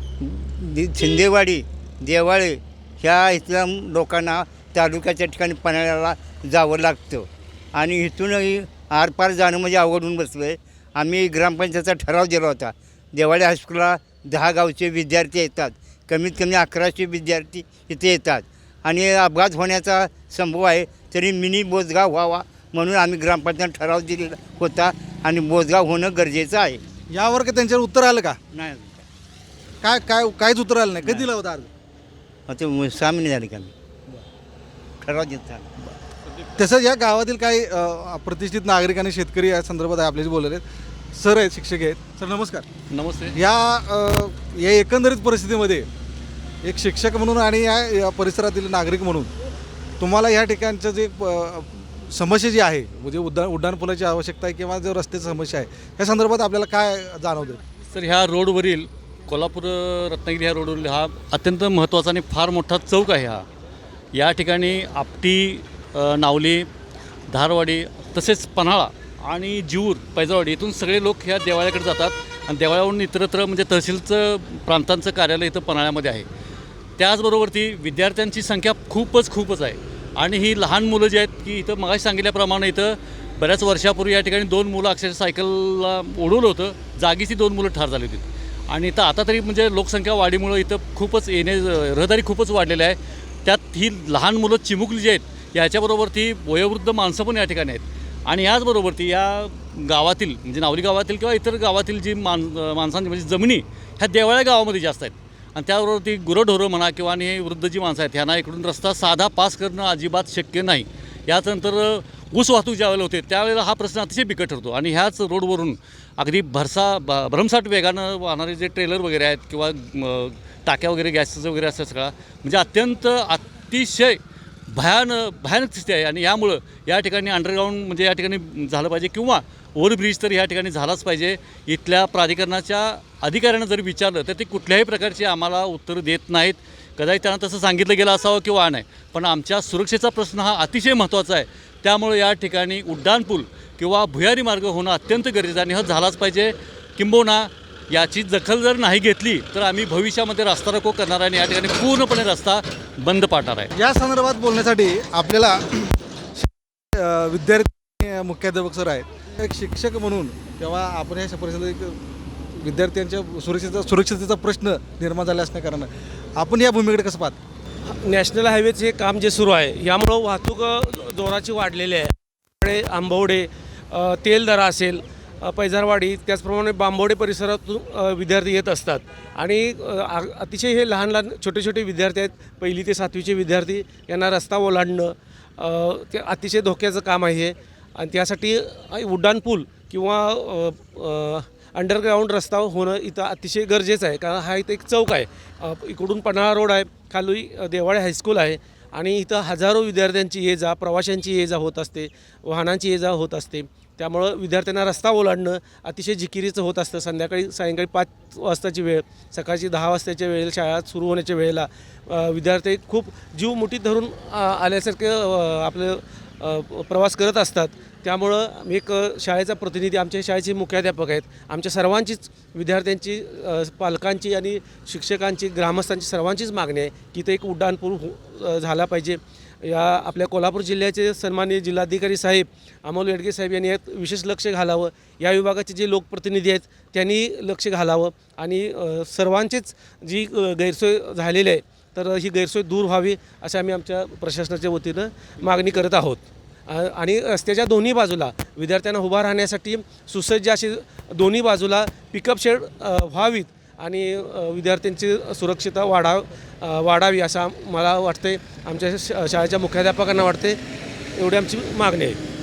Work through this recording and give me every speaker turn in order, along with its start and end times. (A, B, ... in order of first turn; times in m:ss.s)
0:00.2-0:26.8 A
0:27.1-0:28.4 B
0:28.5-0:29.0 A
0:29.8-0:31.7 B
0:31.0-0:31.3 A
0:32.5-0:33.7 A
0:35.0-0:35.7 A
0:36.6-0:40.6 B
0:41.1-0:42.7 B
0:42.9-0:43.4 C
0:43.3-0:45.9 B
0:46.6-0:49.3 B
0:50.0-0:57.6 B
0:57.9-1:03.4 C
1:04.1-1:06.7 C
1:07.3-1:16.2 C
1:17.0-2:04.2 C
2:04.7-2:33.7 C
2:33.7-2:47.4 B
2:47.8-4:20.6 D
4:21.1-4:22.2 D